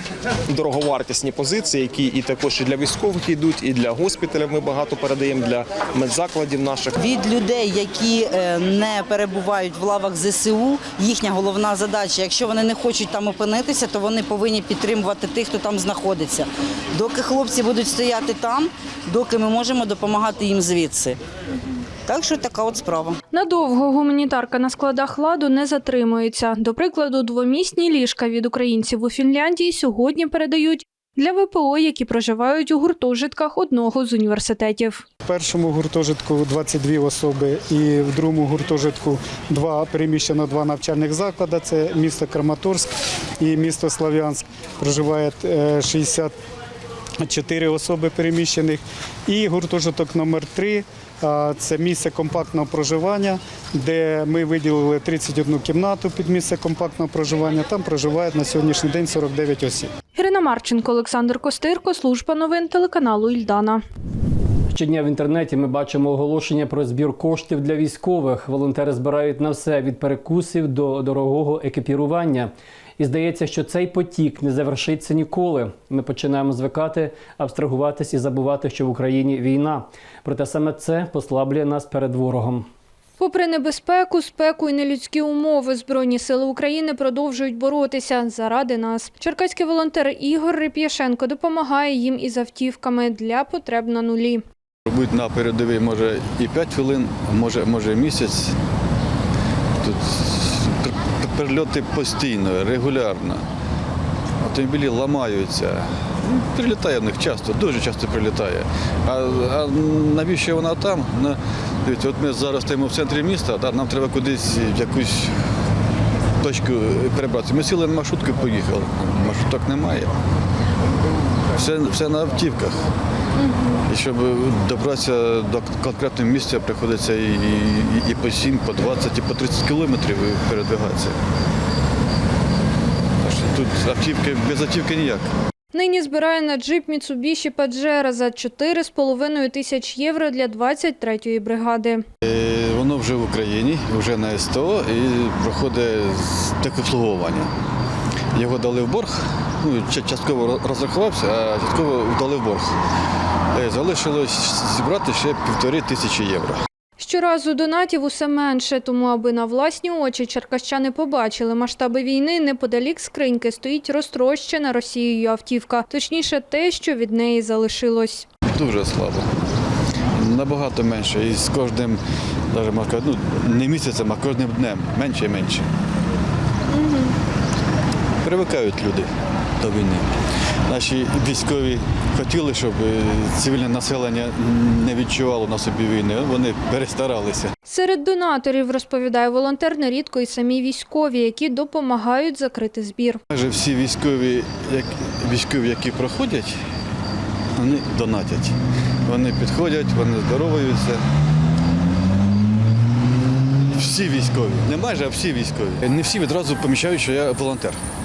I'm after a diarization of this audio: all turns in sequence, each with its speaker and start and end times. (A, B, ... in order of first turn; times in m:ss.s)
0:00.5-0:06.9 A
0:07.0-0:21.2 B
0:22.1-0:23.2 B
0:23.3-0:35.0 C
0:35.2-0:42.9 D
0:43.4-0:46.3 D
0:47.2-0:59.9 D
1:00.1-1:03.8 C
1:04.7-1:22.7 E
1:23.2-1:34.4 C
1:34.9-1:38.5 F
1:39.8-1:43.4 F
1:44.4-1:55.3 F
1:56.4-2:00.1 F
2:01.5-2:02.8 F
2:03.4-2:03.8 C
2:03.9-2:11.2 F
2:13.2-2:15.3 F
2:15.7-2:22.0 C
2:22.2-2:27.5 F
2:28.3-2:32.8 F
2:33.5-2:36.6 F
2:37.0-2:48.3 C
2:48.5-2:49.3 F
2:50.1-2:52.0 F
2:52.5-2:55.6 F
2:56.7-2:57.1 C
2:58.2-3:00.1 F
3:00.7-3:07.5 F
3:07.7-3:13.2 C
3:13.3-3:16.6 F
3:17.6-3:21.0 F
3:23.7-3:27.8 F